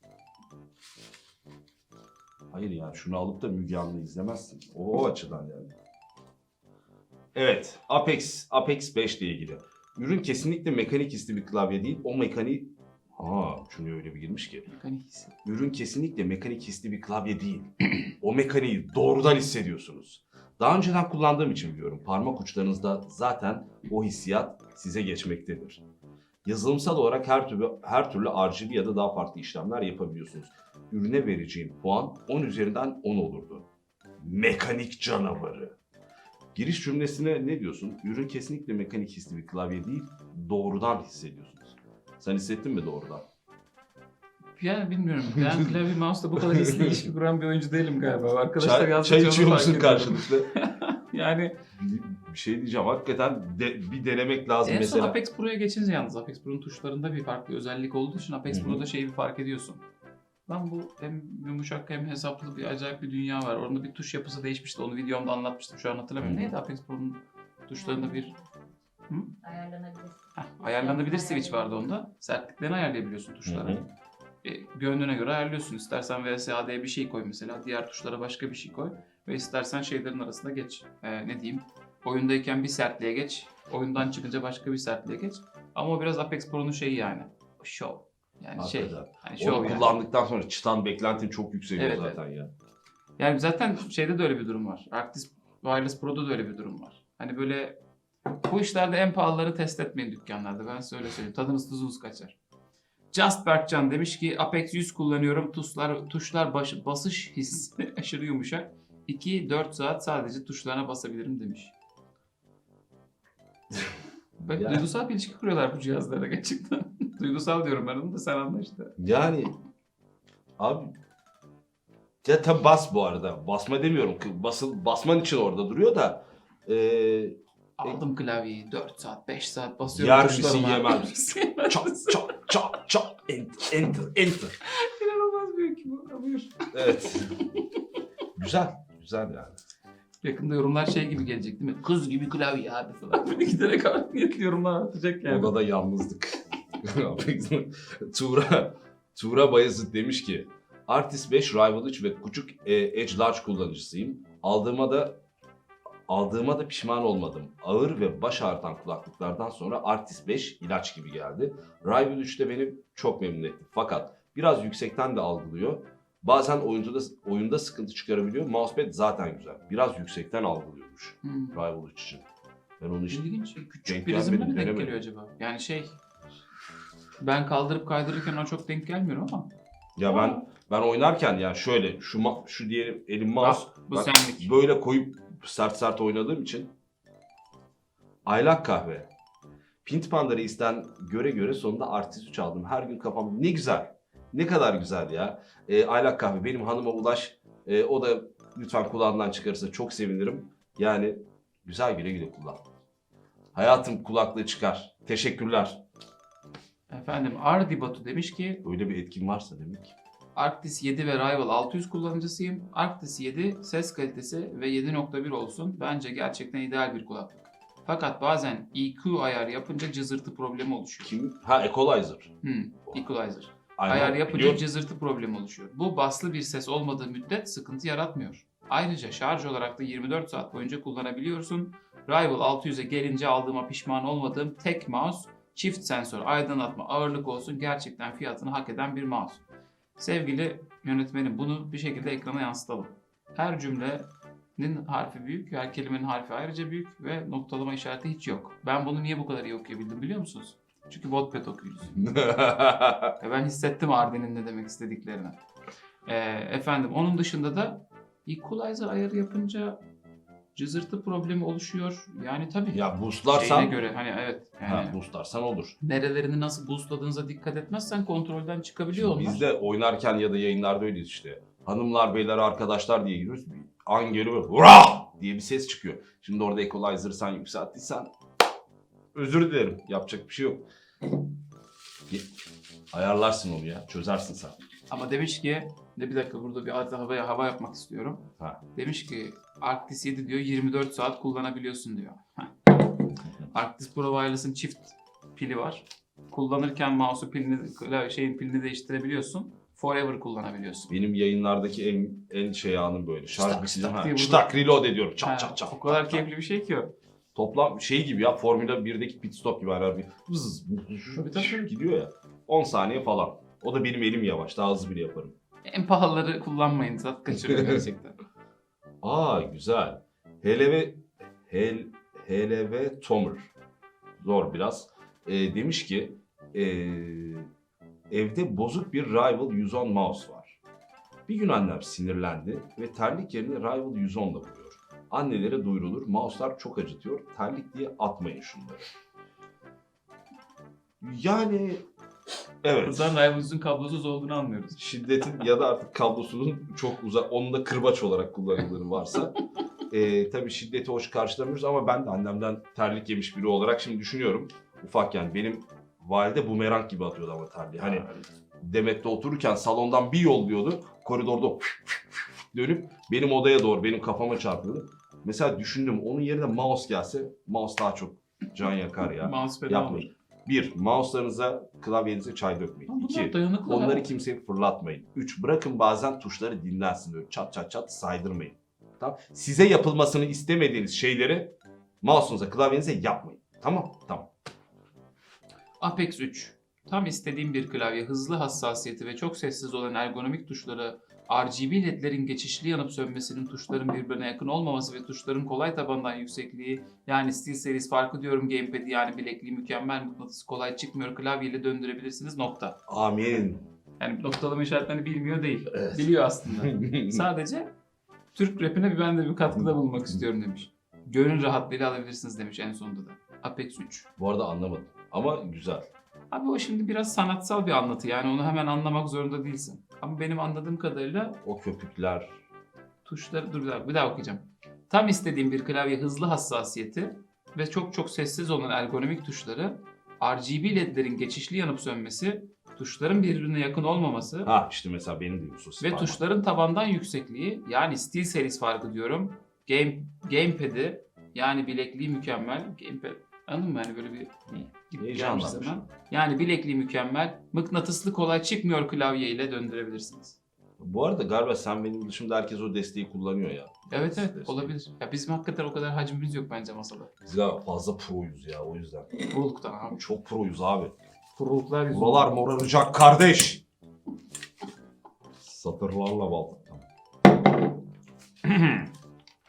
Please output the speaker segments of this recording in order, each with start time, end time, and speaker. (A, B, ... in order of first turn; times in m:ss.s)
0:02.5-0:05.7 A
0:07.4-0:14.7 A
0:14.7-0:15.4 B
0:15.4-0:25.8 A
0:26.4-0:33.7 A
0:34.2-0:35.8 A
0:36.6-0:43.2 A
0:44.6-0:51.6 B
0:46.4-0:47.0 A
0:48.6-0:50.5 A
0:51.8-0:55.2 A
0:54.6-0:59.8 B
0:58.5-0:58.8 A
1:00.5-1:08.3 B
1:06.2-1:06.5 A
1:08.2-1:08.7 C
1:09.1-1:09.4 B
1:09.4-1:11.7 C
1:10.4-1:13.8 B
1:13.5-1:13.8 A
1:14.4-1:30.0 B
1:28.6-1:32.5 A
1:31.8-1:32.2 B
1:33.2-1:37.8 B
1:38.4-1:42.4 B
1:43.1-1:51.7 B
1:54.4-1:54.8 A
1:54.5-1:58.9 B
1:59.0-1:59.6 A
2:00.6-2:00.9 A
2:02.2-2:08.0 A
2:07.8-2:12.4 B
2:09.9-2:14.6 A
2:14.7-2:16.7 B
2:16.7-2:17.4 A
2:17.5-2:17.8 B
2:18.4-2:19.6 A
2:20.2-2:25.5 B
2:25.3-2:35.2 A
2:36.1-2:52.3 A
2:51.2-2:51.6 B
2:52.8-2:53.3 A
2:53.1-2:56.0 B
2:53.9-2:55.0 A
2:57.2-2:59.5 B
3:00.0-3:06.7 A
3:00.0-3:00.4 B
3:03.4-3:04.5 B
3:08.2-3:09.1 A
3:09.8-3:22.6 A
3:23.6-3:25.8 A
3:26.9-3:28.6 B
3:28.6-3:30.0 A
3:30.4-3:41.2 B
3:41.0-3:42.3 A
3:42.4-3:59.4 B
3:43.8-3:44.6 A
4:00.0-4:12.0 B
4:12.0-4:13.2 A
4:13.2-4:15.4 B
4:16.0-4:19.8 B
4:20.6-4:25.0 B
4:22.7-4:23.8 A
4:24.6-4:25.8 A
4:25.8-4:29.4 B
4:28.9-4:38.1 A
4:39.1-4:40.7 A
4:42.9-4:44.6 A
4:44.9-5:00.9 B
5:00.9-5:06.2 A
5:03.4-5:04.5 B
5:05.2-5:06.9 B
5:07.4-5:15.3 A
5:11.1-5:11.7 B
5:15.6-5:18.2 B
5:19.0-5:23.5 A
5:24.2-5:27.5 A
5:28.1-5:30.6 A
5:31.3-5:38.9 A
5:41.0-5:41.8 A
5:42.6-5:43.2 A
5:42.8-5:44.8 B
5:44.8-5:49.4 A
5:49.9-5:58.1 A
5:57.8-5:58.3 B
5:58.6-6:02.0 A
6:02.5-6:24.3 A
6:09.0-6:10.1 B
6:12.9-6:14.1 B
6:25.8-6:42.8 B
6:42.9-6:43.6 A
6:44.0-6:47.7 B
6:45.7-6:47.3 A
6:48.4-6:54.1 B
6:49.5-6:50.2 A
6:54.2-6:55.9 A
6:56.3-7:01.4 B
7:01.4-7:02.4 A
7:03.0-7:14.5 B
7:14.4-7:16.2 A
7:15.8-7:24.3 B
7:24.5-7:25.9 A
7:24.9-7:30.4 B
7:30.8-7:34.7 A
7:33.9-7:37.1 B
7:37.2-7:39.2 A
7:39.2-7:40.0 B
7:39.9-7:41.0 A
7:41.4-7:42.3 B
7:41.9-7:43.6 A
7:45.4-7:46.9 A
7:48.4-7:48.9 B